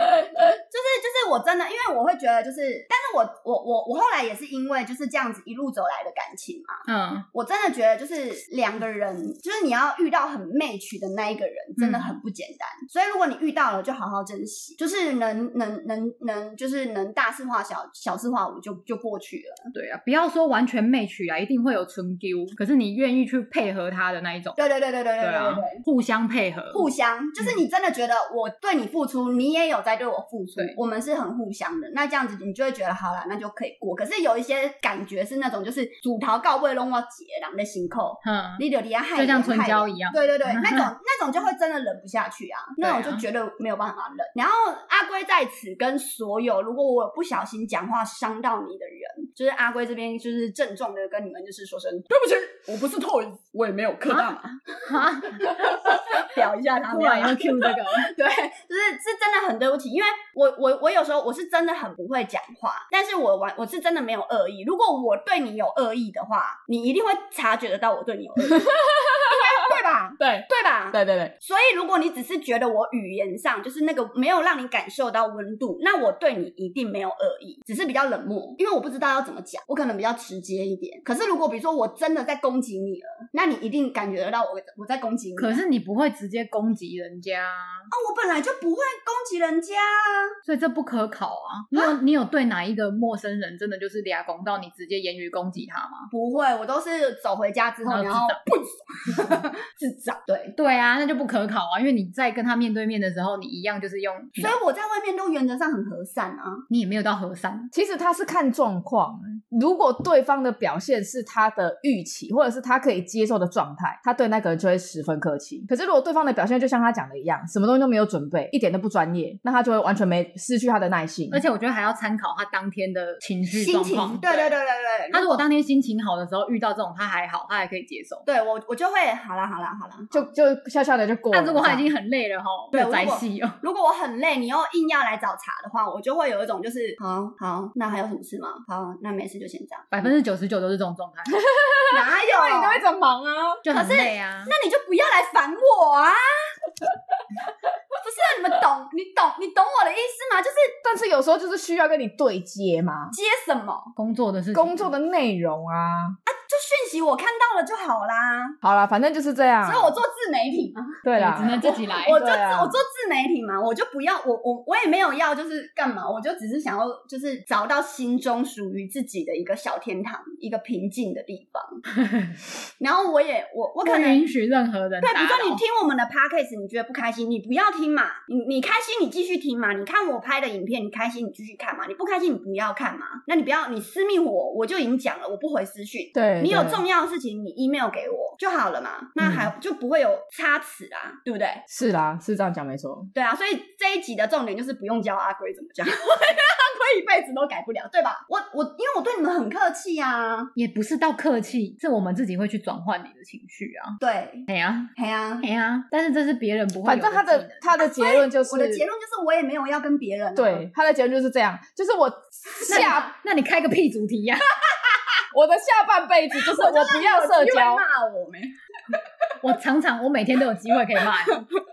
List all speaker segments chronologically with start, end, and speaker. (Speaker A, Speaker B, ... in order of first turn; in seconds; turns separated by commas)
Speaker A: 0.6-19.7, Speaker B: 6.9-7.3, Speaker B: 11.8-12.2, Speaker B: 19.7-24.6, Speaker A: 24.6-25.8, Speaker B: 25.2-26.9, Speaker A: 26.7-68.7, Speaker B: 38.2-38.6, Speaker B: 39.1-40.9, Speaker B: 42.8-43.2, Speaker B: 54.9-56.0, Speaker B: 56.9-58.1, Speaker C: 68.5-69.4, Speaker A: 69.2-85.6, Speaker C: 70.2-71.3, Speaker B: 85.4-87.9, Speaker A: 87.9-90.3, Speaker B: 90.4-96.1, Speaker A: 96.1-100.5, Speaker B: 97.8-98.4, Speaker B: 100.6-104.6, Speaker A: 104.4-106.6, Speaker B: 106.7-107.7, Speaker C: 107.7-121.4, Speaker B: 121.3-124.5, Speaker A: 123.5-125.4, Speaker B: 125.1-128.2, Speaker A: 128.2-130.2, Speaker C: 130.1-131.8, Speaker B: 131.3-133.6, Speaker A: 132.7-139.9, Speaker B: 139.9-141.4, Speaker C: 141.4-143.6, Speaker A: 141.9-142.8, Speaker B: 143.6-144.5, Speaker A: 143.7-146.5, Speaker A: 147.9-150.7, Speaker C: 150.8-153.1, Speaker A: 153.1-153.9, Speaker B: 154.0-154.9, Speaker C: 154.5-156.2, Speaker A: 156.2-158.6, Speaker C: 158.6-160.0, Speaker A: 159.6-171.8, Speaker C: 161.0-162.8, Speaker B: 161.2-162.2, Speaker B: 172.0-172.4, Speaker A: 172.8-174.2, Speaker B: 173.8-175.6, Speaker A: 175.0-191.6, Speaker C: 186.1-186.8, Speaker C: 191.7-193.1, Speaker A: 193.1-200.5, Speaker B: 200.6-204.9, Speaker A: 204.0-205.4, Speaker B: 205.4-207.6, Speaker C: 206.8-208.8, Speaker A: 207.8-210.7, Speaker C: 210.3-213.1, Speaker B: 212.7-215.0, Speaker C: 215.3-217.8, Speaker A: 216.5-218.5, Speaker B: 219.4-221.4